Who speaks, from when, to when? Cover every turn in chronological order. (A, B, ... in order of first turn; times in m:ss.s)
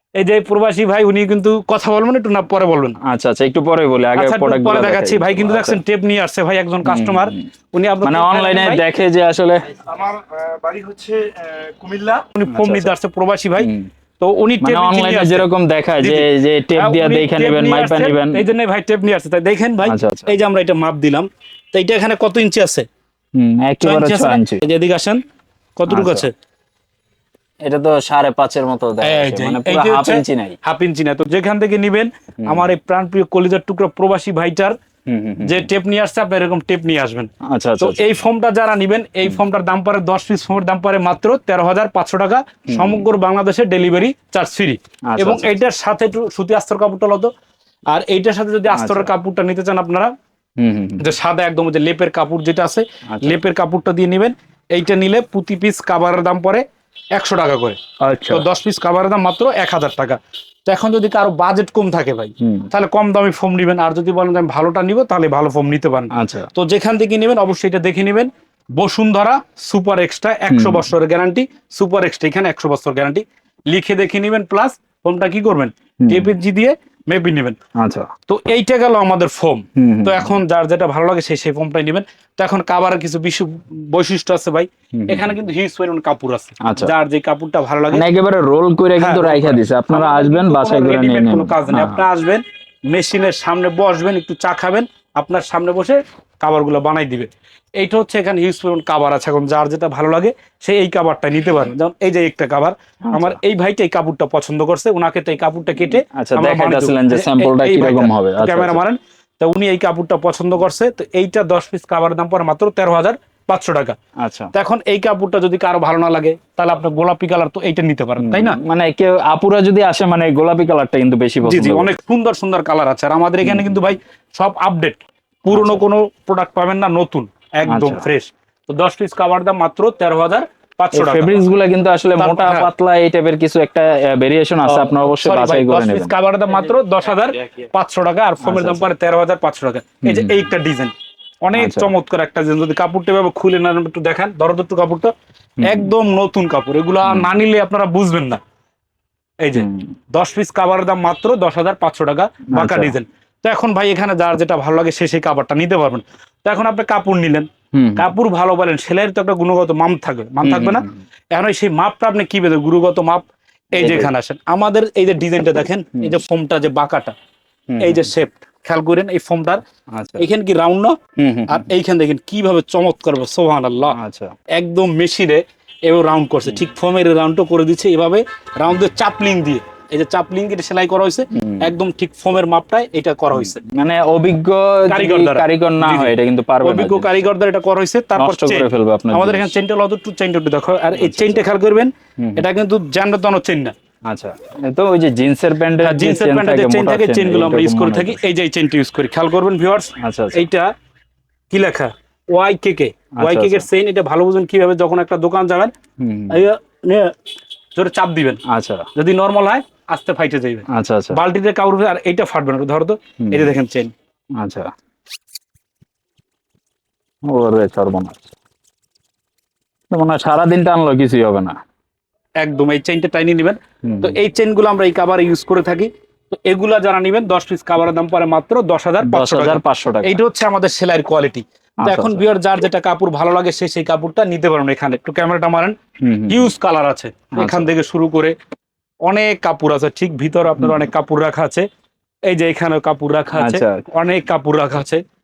0:00.2-0:03.0 A
0:03.0-0:05.8 B
0:04.2-0:08.8 A
0:06.8-0:07.4 B
0:08.0-0:09.7 B
0:09.8-0:12.3 C
0:12.4-0:15.4 A
0:12.5-0:12.9 B
0:13.6-0:13.9 B
0:14.6-0:18.4 B
0:16.0-0:22.9 A
0:19.8-0:20.4 B
0:23.4-0:24.6 B
0:23.8-0:25.2 A
0:25.8-0:26.3 A
0:25.9-0:26.3 B
0:27.6-0:30.6 B
0:29.0-0:34.8 A
0:32.4-0:32.7 B
0:35.1-0:35.7 B
0:35.4-0:37.3 A
0:37.5-0:38.0 B
0:37.8-0:47.3 A
0:42.7-0:43.0 B
0:45.1-0:45.5 B
0:47.9-0:50.1 A
0:48.8-0:49.1 B
0:50.6-0:51.1 B
0:51.0-0:56.6 A
0:53.1-0:53.4 B
0:57.2-0:57.8 A
0:58.0-0:58.5 B
0:58.3-1:17.6 A
1:02.4-1:02.7 B
1:06.1-1:06.5 B
1:10.5-1:10.9 B
1:16.0-1:16.3 B
1:17.8-1:18.1 B
1:18.3-1:28.0 A
1:19.8-1:20.4 B
1:25.0-1:25.3 B
1:26.7-1:26.9 B
1:27.9-1:32.0 B
1:29.0-1:54.0 A
1:43.1-1:43.4 B
1:46.2-1:48.8 B
1:54.2-1:54.5 B
1:54.5-1:58.6 A
1:58.2-2:01.9 B
2:01.4-2:11.4 A
2:03.4-2:03.8 B
2:05.5-2:05.8 B
2:07.7-2:08.1 B
2:11.0-2:16.1 B
2:12.2-2:12.7 A
2:14.7-2:20.9 A
2:18.4-2:18.9 B
2:20.0-2:20.4 B
2:21.4-2:25.1 A
2:21.6-2:21.9 B
2:25.6-2:25.9 B
2:25.6-2:28.4 A
2:27.0-2:27.3 B
2:29.4-2:47.1 A
2:29.6-2:29.9 B
2:32.5-2:33.0 B
2:37.7-2:38.1 B
2:40.4-2:41.0 B
2:43.8-2:44.1 B
2:47.7-2:48.1 B
2:47.8-2:49.6 A
2:49.9-2:50.3 B
2:50.2-2:50.9 A
2:51.2-2:51.7 B
2:51.5-2:54.0 A
2:54.0-2:54.3 B
2:54.5-3:03.6 A
3:01.4-3:01.7 B
3:03.3-3:07.2 B
3:04.9-3:13.7 A
3:08.2-3:09.5 B
3:10.9-3:11.4 B
3:12.2-3:12.4 B
3:14.1-3:18.2 B
3:15.8-3:20.7 A
3:20.0-3:20.4 B
3:21.5-3:25.7 A
3:23.2-3:23.7 B
3:26.0-3:26.4 B
3:26.3-3:27.1 A
3:27.8-3:28.4 A
3:28.5-3:28.9 B
3:28.9-3:33.9 A
3:30.7-3:31.2 B
3:33.2-3:33.5 B
3:34.4-3:34.7 B
3:37.3-3:38.2 B
3:39.9-3:41.6 B
3:42.4-3:55.7 A
3:43.8-3:44.2 B
3:49.0-3:50.2 B
3:51.8-3:52.2 B
3:56.0-3:56.5 B
3:56.3-3:58.3 A
3:57.4-3:57.7 B
3:59.1-4:01.7 A
4:00.6-4:00.8 B
4:02.3-4:05.0 A
4:03.4-4:03.8 B